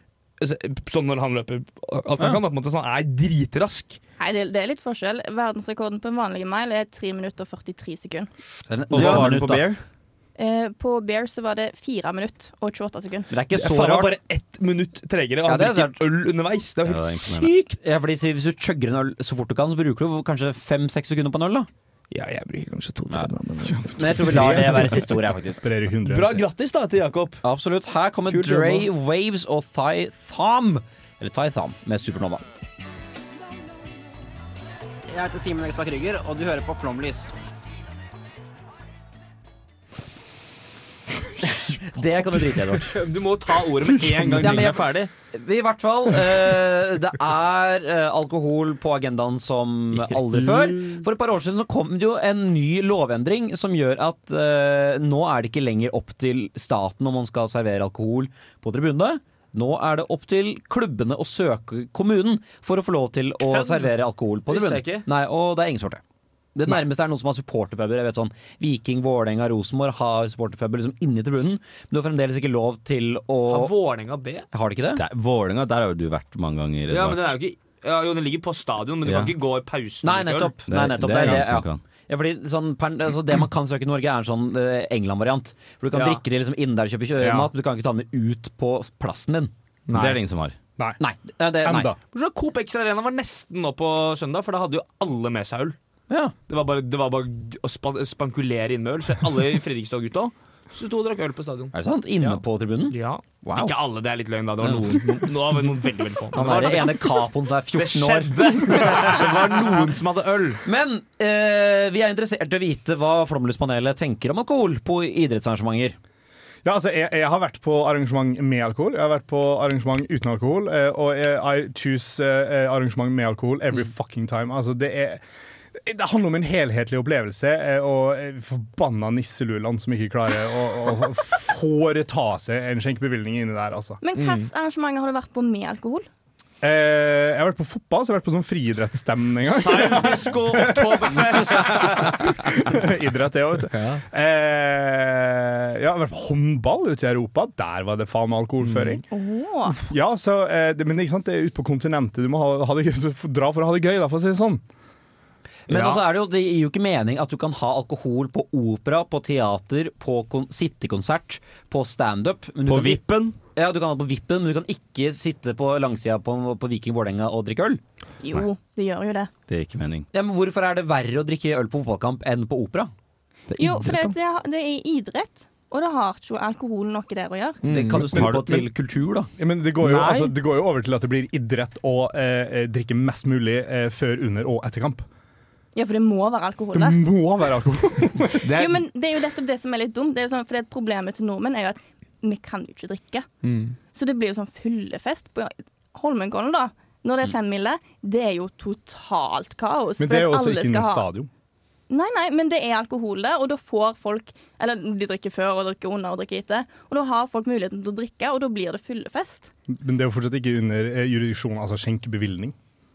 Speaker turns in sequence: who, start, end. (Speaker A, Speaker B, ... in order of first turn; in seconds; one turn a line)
Speaker A: 0.4-4.0
Speaker B: 4.2-8.3
Speaker C: 8.7-9.7
Speaker D: 8.9-9.8
Speaker A: 9.0-9.3
Speaker B: 10.4-13.3
Speaker C: 13.3-14.2
Speaker A: 13.5-17.8
Speaker C: 15.4-16.0
Speaker D: 16.9-17.6
Speaker C: 17.8-21.7
Speaker A: 22.1-24.7
Speaker E: 23.6-26.4
Speaker C: 24.0-25.6
Speaker A: 26.1-27.4
Speaker C: 27.4-32.5
Speaker A: 28.3-28.9
Speaker F: 35.1-37.3
Speaker C: 41.5-43.0
Speaker A: 42.9-45.1
Speaker E: 43.8-44.7
Speaker C: 44.4-66.0
Speaker A: 63.5-63.9
Speaker A: 64.5-65.1
Speaker C: 66.5-73.7
Speaker A: 73.5-74.5
Speaker C: 74.5-75.0
Speaker D: 75.0-77.4
Speaker A: 76.9-80.5
Speaker D: 79.0-79.3
Speaker C: 80.0-89.5
Speaker D: 80.7-81.8
Speaker A: 85.9-86.2
Speaker A: 89.9-90.2
Speaker D: 89.9-90.6
Speaker C: 91.0-91.9
Speaker E: 91.6-92.0
Speaker A: 92.1-95.8
Speaker C: 96.1-96.3
Speaker A: 96.5-107.2
Speaker C: 101.7-103.8
Speaker C: 104.6-105.0
Speaker C: 106.3-109.6
Speaker A: 107.7-110.6
Speaker C: 110.6-116.0
Speaker E: 116.7-125.2
Speaker E: 125.8-134.0
Speaker B: 134.0-136.1
Speaker A: 134.2-134.5
Speaker E: 136.6-149.0
Speaker A: 139.5-142.2
Speaker A: 148.7-149.0
Speaker B: 149.1-149.8
Speaker E: 149.8-154.6
Speaker C: 155.7-167.8
Speaker A: 155.7-156.0
Speaker D: 162.7-163.4
Speaker B: 168.2-169.3
Speaker D: 169.5-170.1
Speaker C: 170.1-172.9
Speaker A: 173.5-174.1
Speaker B: 173.6-177.6
Speaker A: 177.6-178.1
Speaker C: 177.7-179.3
Speaker D: 178.1-178.5
Speaker E: 178.1-178.7
Speaker E: 179.4-185.1
Speaker A: 179.8-180.3
Speaker B: 185.8-187.0
Speaker E: 186.7-188.5
Speaker A: 188.4-188.8
Speaker B: 188.5-193.3
Speaker A: 193.4-193.8
Speaker B: 193.9-201.1
Speaker E: 200.0-201.3
Speaker B: 201.9-209.5
Speaker E: 209.7-212.6